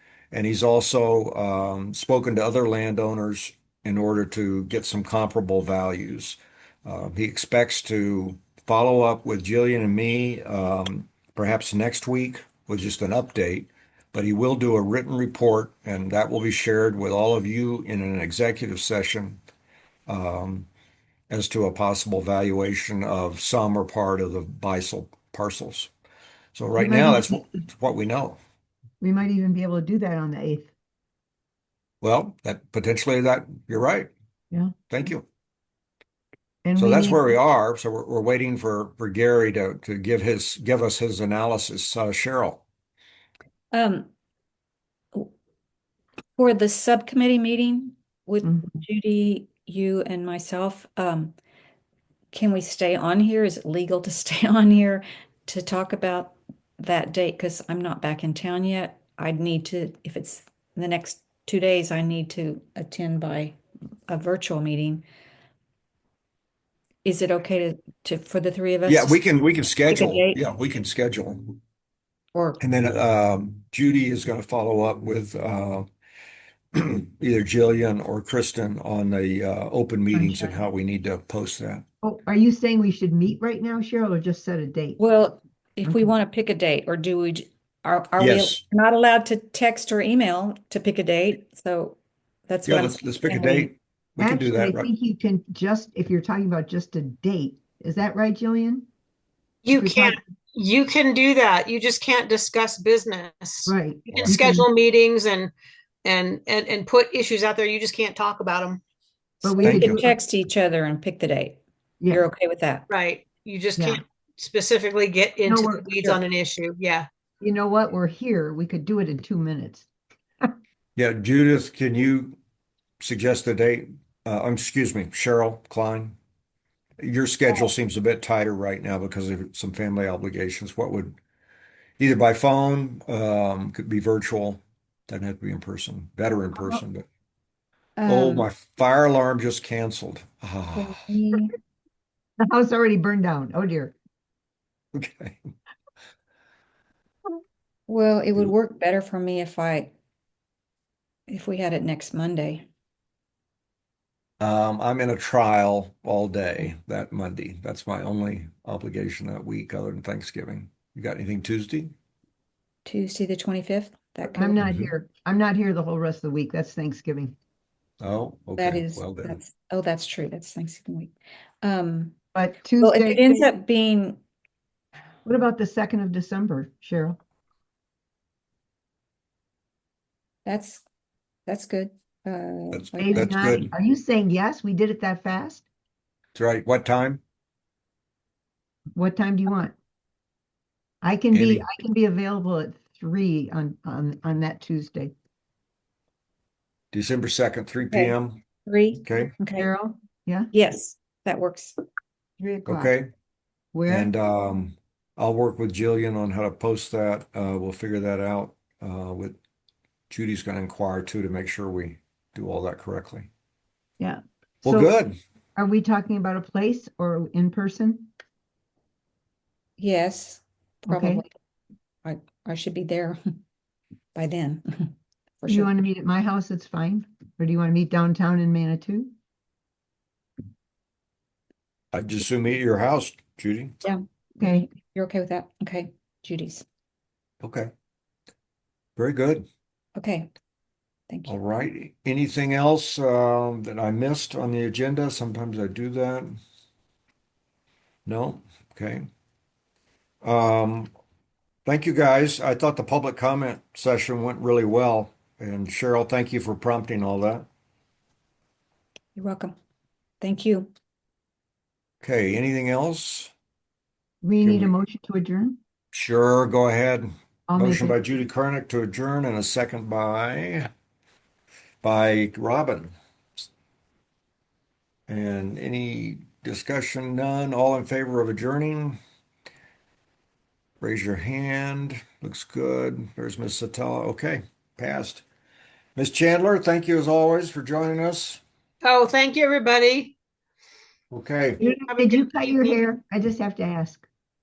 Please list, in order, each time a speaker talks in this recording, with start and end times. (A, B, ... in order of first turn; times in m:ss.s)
0:00.3-0:19.4 A
0:20.1-0:20.7 A
0:21.3-0:25.9 A
0:26.5-0:28.4 A
0:26.8-0:27.5 B
0:29.0-0:30.7 B
0:32.0-0:34.1 A
0:34.9-0:35.2 A
0:36.6-0:37.2 B
0:36.8-0:42.6 A
0:43.7-0:44.1 C
0:46.4-0:51.3 C
0:52.3-1:05.0 C
1:07.0-1:09.2 C
1:08.8-1:11.6 A
1:09.9-1:10.4 C
1:12.3-1:12.6 C
1:12.6-1:15.9 A
1:16.7-1:21.8 A
1:22.0-1:25.0 B
1:25.0-1:33.7 C
1:28.2-1:28.6 A
1:32.6-1:34.9 A
1:34.2-1:38.9 B
1:39.6-1:45.5 D
1:39.7-1:40.2 B
1:43.7-1:44.7 B
1:46.0-1:48.8 D
1:49.4-1:50.1 B
1:49.4-1:51.6 C
1:49.6-1:50.1 A
1:52.1-1:52.8 C
1:52.9-1:57.1 D
1:55.5-1:55.9 B
1:57.4-1:59.9 B
2:01.0-2:02.4 A
2:03.0-2:06.2 A
2:07.0-2:11.2 A
2:12.0-2:17.0 A
2:18.0-2:18.5 C
2:18.0-2:21.0 A
2:20.7-2:21.5 C
2:22.4-2:24.0 B
2:24.9-2:25.4 A
2:27.9-2:29.9 C
2:31.3-2:32.7 C
2:34.4-2:41.9 A
2:42.8-2:44.6 C
2:44.3-2:47.4 B
2:44.6-2:44.9 A
2:48.0-2:49.4 A
2:48.6-2:52.2 C
2:52.3-2:53.5 B
2:52.8-2:54.2 C
2:55.2-2:57.2 B
3:00.4-3:00.8 C
3:01.5-3:03.5 C
3:02.7-3:03.7 A
3:03.0-3:05.6 B
3:06.3-3:07.2 A
3:08.9-3:09.7 B
3:11.0-3:15.1 B
3:11.3-3:11.6 A
3:16.9-3:18.4 A
3:17.9-3:19.7 C
3:19.0-3:19.3 A
3:19.6-3:20.5 B
3:20.5-3:21.7 C
3:22.4-3:22.9 B
3:22.6-3:23.1 A
3:23.7-3:24.1 B
3:23.9-3:29.4 A
3:30.1-3:33.3 A
3:34.0-3:34.9 B
3:34.6-3:35.2 A
3:35.6-3:38.1 B
3:39.8-3:41.3 C
3:40.9-3:41.2 B
3:42.0-3:43.2 C
3:44.1-3:45.7 C
3:45.5-3:49.1 B
3:51.9-3:53.7 A
3:53.8-3:56.6 C
3:54.4-3:54.7 B
3:57.4-3:57.7 A
3:59.0-3:59.5 A
3:59.9-4:00.3 C
4:01.2-4:06.4 A
4:08.0-4:09.1 A
4:10.2-4:10.9 A
4:11.6-4:17.5 A
4:19.2-4:19.5 C
4:20.2-4:20.7 C
4:22.0-4:23.3 A
4:24.2-4:25.6 B
4:24.4-4:24.7 A
4:25.9-4:30.7 A
4:27.5-4:28.0 B
4:31.8-4:32.9 A
4:35.1-4:39.0 A
4:40.8-4:45.2 A
4:46.0-4:48.4 A
4:48.8-4:50.2 D
4:51.1-4:51.6 A
4:51.6-4:54.0 B
4:51.8-4:52.8 D